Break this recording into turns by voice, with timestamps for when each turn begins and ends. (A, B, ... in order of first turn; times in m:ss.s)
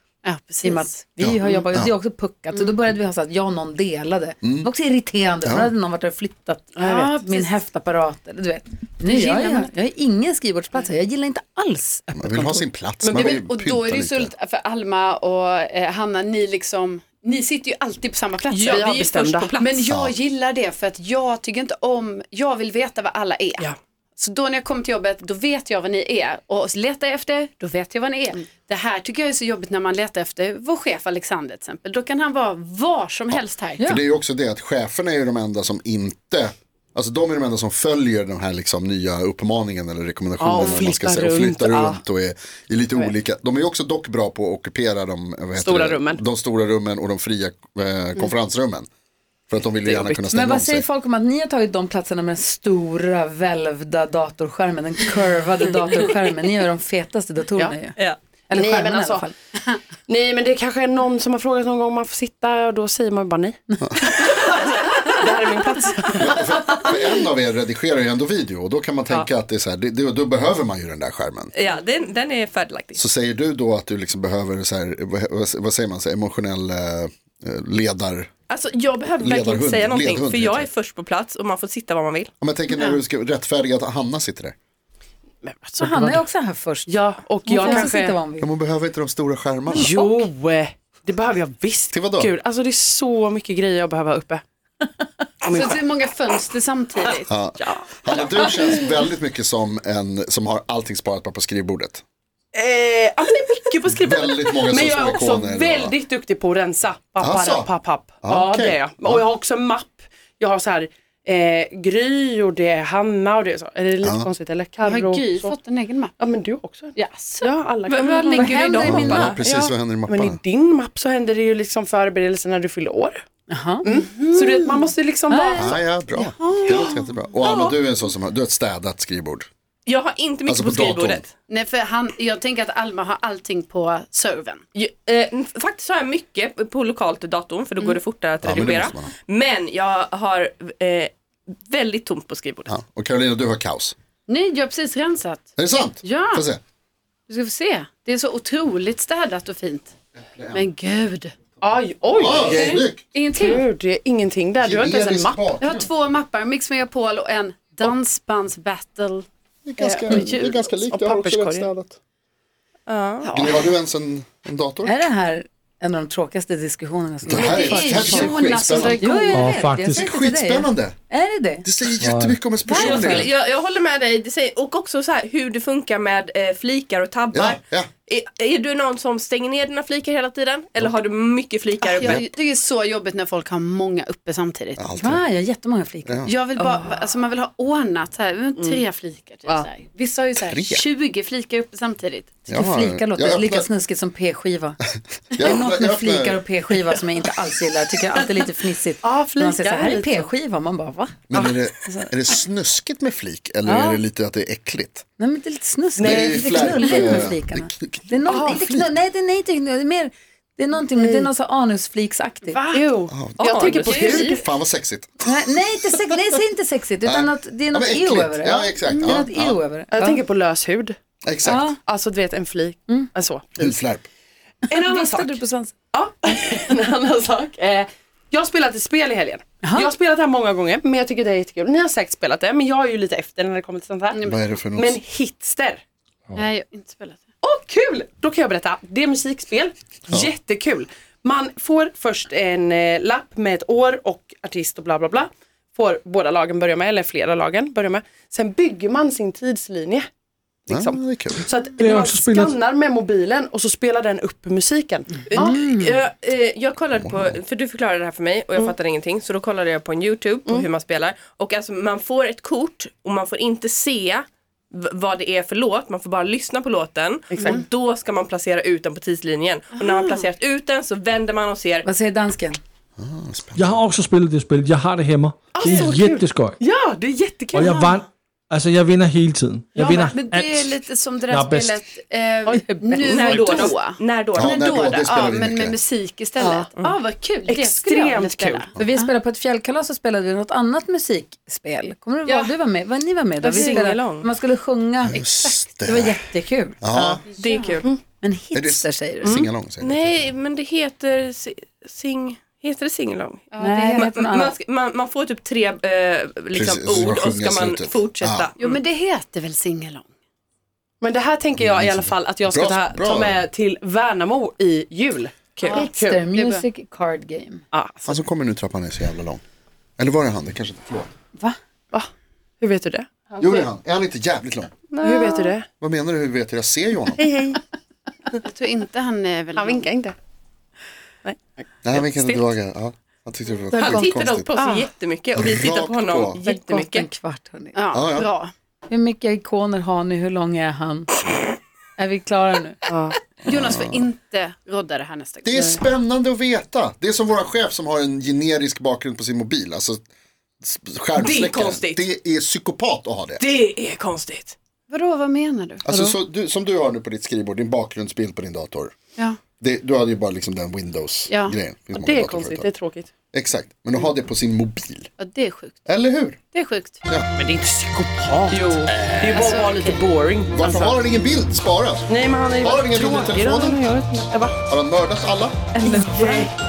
0:00.2-0:00.9 A
0:00.6-0:12.6 B
0:01.2-0:01.9 C
0:04.4-0:04.7 C
0:05.4-0:05.7 C
0:06.8-0:07.1 D
0:07.3-0:07.5 A
0:09.0-0:09.7 A
0:12.2-0:14.3 C
0:13.0-0:13.4 D
0:13.1-0:33.8 A
0:18.5-0:19.8 E
0:18.6-0:19.5 D
0:19.9-0:20.1 C
0:33.3-0:48.9 C
0:40.4-0:42.0 D
0:45.5-0:46.2 D
0:49.5-0:50.8 C
0:49.8-0:50.3 D
0:50.3-0:58.0 B
0:58.5-0:59.3 B
0:58.5-0:59.3 D
1:00.1-1:06.4 D
1:06.2-1:11.5 C
1:11.5-1:13.0 E
1:13.0-1:18.3 C
1:18.5-1:22.3 E
1:19.2-1:20.7 C
1:22.4-1:24.5 C
1:22.7-1:23.0 A
1:25.4-1:26.3 D
1:25.8-1:26.9 B
1:26.9-1:28.2 D
1:27.4-1:28.5 B
1:28.4-1:29.9 C
1:29.7-1:34.4 D
1:29.7-1:30.2 B
1:31.9-1:32.3 C
1:35.4-1:35.8 D
1:35.5-1:37.3 A
1:37.3-1:42.0 C
1:37.6-1:38.6 D
1:42.5-1:55.5 D
1:43.9-1:46.0 C
1:47.2-1:47.7 C
1:48.2-1:49.2 C
1:54.0-1:54.3 C
1:54.8-1:56.1 A
1:56.2-1:59.0 D
1:57.0-1:57.4 A
1:57.9-1:59.7 E
1:58.3-1:59.4 B
1:58.8-2:00.4 C
2:00.1-2:03.2 D
2:03.5-2:03.9 B
2:03.8-2:05.7 D
2:03.9-2:04.9 A
2:05.3-2:05.7 B
2:05.5-2:09.5 C
2:06.5-2:06.8 A
2:07.4-2:07.7 E
2:09.8-2:11.3 E
2:10.4-2:11.2 C
2:11.5-2:14.6 A
2:14.7-2:21.1 E
2:18.4-2:19.1 C
2:21.7-2:22.7 E
2:22.7-2:23.9 C
2:24.3-2:25.5 A
2:25.6-2:26.6 C
2:26.0-2:26.4 A
2:27.3-2:29.9 A
2:30.3-2:30.6 C
2:30.5-2:31.4 A
2:31.6-2:35.5 D
2:32.1-2:33.0 C
2:32.4-2:33.6 A
2:34.6-2:35.9 C
2:35.6-2:39.2 A
2:39.6-2:42.0 C
2:39.8-2:41.7 D
2:39.9-2:40.2 A
2:42.9-2:43.3 E
2:43.3-2:45.0 C
2:44.8-2:51.6 B
2:47.2-2:49.0 C
2:47.3-2:49.5 A
2:49.3-2:50.1 F
2:49.9-2:51.0 C
2:51.6-2:53.3 C
2:52.0-2:53.0 F
2:52.7-3:02.2 E
2:52.7-2:53.2 B
2:57.3-2:57.9 C
3:01.8-3:04.8 A
3:04.8-3:05.2 C
3:05.0-3:06.8 B
3:06.0-3:06.3 C
3:06.2-3:12.4 A
3:10.5-3:10.8 C
3:12.5-3:13.6 C
3:12.5-3:14.8 B
3:15.3-3:16.4 C
3:15.4-3:21.2 B
3:18.2-3:18.4 D
3:19.0-3:20.3 D
3:21.3-3:25.0 C
3:21.3-3:21.6 D
3:23.6-3:24.0 B
3:25.2-3:32.6 B
3:26.0-3:27.2 D
3:26.0-3:28.1 C
3:28.2-3:28.8 D
3:31.0-3:31.3 D
3:32.5-3:32.9 A
3:32.7-3:34.4 D
3:33.1-3:35.4 C
3:33.4-3:34.3 E
3:35.2-3:40.2 B
3:37.0-3:39.6 C
3:38.9-3:39.2 A
3:39.9-3:41.0 D
3:41.2-3:41.7 C
3:41.4-3:41.8 B
3:41.7-3:43.8 D
3:43.6-3:44.1 C
3:44.7-3:45.4 D
3:44.7-3:45.7 B
3:45.9-3:55.8 D
3:49.6-3:49.9 B
3:54.1-3:54.4 A
3:54.2-3:55.0 C
3:56.3-3:57.2 A
3:57.4-4:10.1 D
4:10.7-4:15.6 D
4:10.7-4:11.4 C
4:11.8-4:12.6 F
4:15.3-4:31.8 E
4:17.0-4:17.4 C
4:27.3-4:27.6 D
4:27.4-4:27.6 A
4:29.8-4:30.2 A
4:31.8-4:32.6 B
4:33.0-4:33.8 C
4:33.5-4:36.6 F
4:35.5-4:37.9 D
4:37.5-4:41.8 F
4:39.8-4:49.1 A
4:42.4-4:43.8 D
4:43.0-4:44.7 E
4:44.3-4:45.8 C
4:46.4-4:46.7 D
4:47.5-4:48.7 D
4:48.8-4:59.4 B
4:53.4-4:54.3 E
4:55.0-4:56.2 C
4:55.2-4:55.5 A
4:56.8-4:57.2 C
4:57.4-4:57.9 E
4:58.5-5:00.3 C
4:59.8-5:08.6 E
5:03.5-5:04.1 A
5:03.6-5:04.5 B
5:06.5-5:08.5 C
5:08.6-5:10.1 A
5:11.0-5:16.2 D
5:11.6-5:13.4 C
5:15.7-5:17.6 B
5:16.3-5:16.6 A
5:17.7-5:18.1 D
5:18.0-5:19.4 C
5:20.0-5:21.1 C
5:22.6-5:23.7 D
5:23.4-5:24.7 C
5:24.9-5:25.5 E
5:25.0-5:25.6 D
5:25.8-5:27.2 C
5:27.2-5:27.6 D
5:28.4-5:29.9 A
5:29.6-5:30.1 D
5:31.2-5:32.4 D
5:31.8-5:34.5 C
5:33.7-5:37.1 E
5:34.6-5:34.9 D
5:35.3-5:36.4 C
5:36.4-5:37.8 B
5:37.7-5:38.5 A
5:37.9-5:38.3 C
5:38.9-5:41.1 B
5:42.0-5:42.8 B
5:42.9-5:43.2 D
5:43.4-5:44.0 C
5:43.4-5:45.9 A
5:45.4-5:50.0 C
5:50.6-5:53.4 C
5:51.2-5:51.5 D
5:51.2-5:52.0 E
5:53.4-5:54.5 D
5:53.6-5:54.5 E
5:54.9-5:56.1 A
5:55.8-5:58.9 C
5:59.6-6:02.7 C
6:01.3-6:01.5 A
6:01.9-6:03.1 D
6:03.3-6:05.1 C
6:05.2-6:05.8 A
6:05.8-6:06.4 C
6:06.5-6:07.0 A
6:07.4-6:11.0 D
6:08.9-6:09.4 C
6:09.2-6:10.0 A
6:10.5-6:14.0 C
6:12.1-6:14.6 D
6:14.6-6:15.6 C
6:15.8-6:16.5 D
6:15.8-6:16.5 E